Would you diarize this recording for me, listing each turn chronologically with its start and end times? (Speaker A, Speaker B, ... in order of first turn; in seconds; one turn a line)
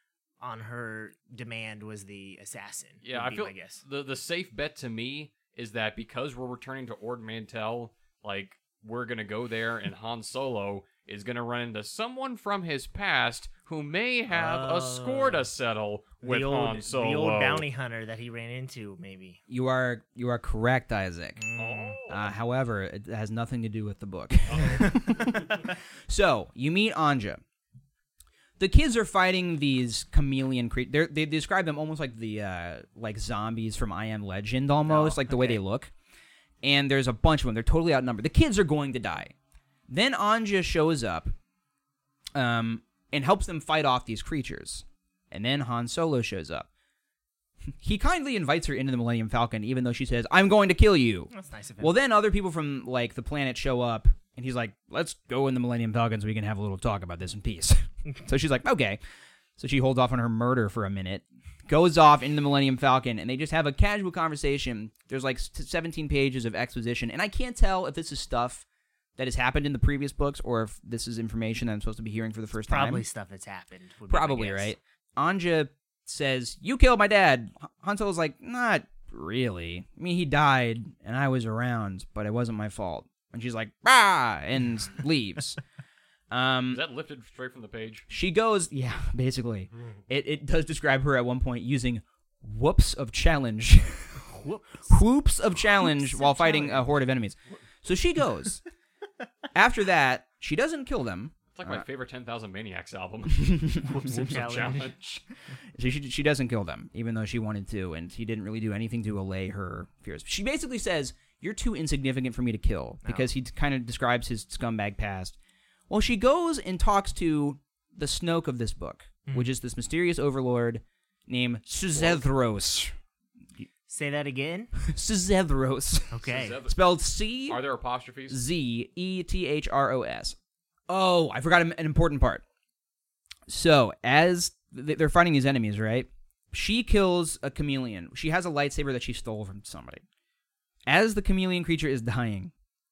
Speaker A: 0.4-3.8
Speaker B: 3.0-17.6
Speaker A: 14.3-15.4
Speaker A: 16.2-19.4
Speaker C: 19.5-21.4
Speaker A: 21.4-22.0
Speaker B: 21.6-22.3
Speaker C: 22.1-27.4
Speaker B: 24.5-25.0
Speaker C: 28.6-35.9
Speaker A: 34.8-35.6
Speaker C: 36.6-39.3
Speaker C: 39.9-41.3
Speaker C: 42.3-46.7
Speaker C: 47.8-59.0
Speaker A: 51.3-51.9
Speaker C: 59.6-68.6
Speaker C: 69.2-73.0
Speaker A: 72.7-74.7
Speaker C: 74.1-85.6
Speaker C: 86.3-86.8
Speaker B: 86.7-88.0
Speaker C: 88.1-94.2
Speaker A: 94.2-94.9
Speaker C: 94.9-98.6
Speaker A: 95.6-96.9
Speaker C: 99.5-101.8
Speaker B: 101.5-105.0
Speaker C: 103.3-104.4
Speaker A: 103.8-104.9
Speaker C: 105.8-115.3
Speaker C: 115.9-122.9
Speaker B: 121.9-122.2
Speaker A: 123.9-124.7
Speaker C: 124.8-127.6
Speaker A: 126.1-126.5
Speaker B: 126.3-126.8
Speaker B: 127.5-128.4
Speaker C: 128.3-130.3
Speaker C: 130.9-132.4
Speaker C: 133.5-140.0
Speaker C: 140.9-142.5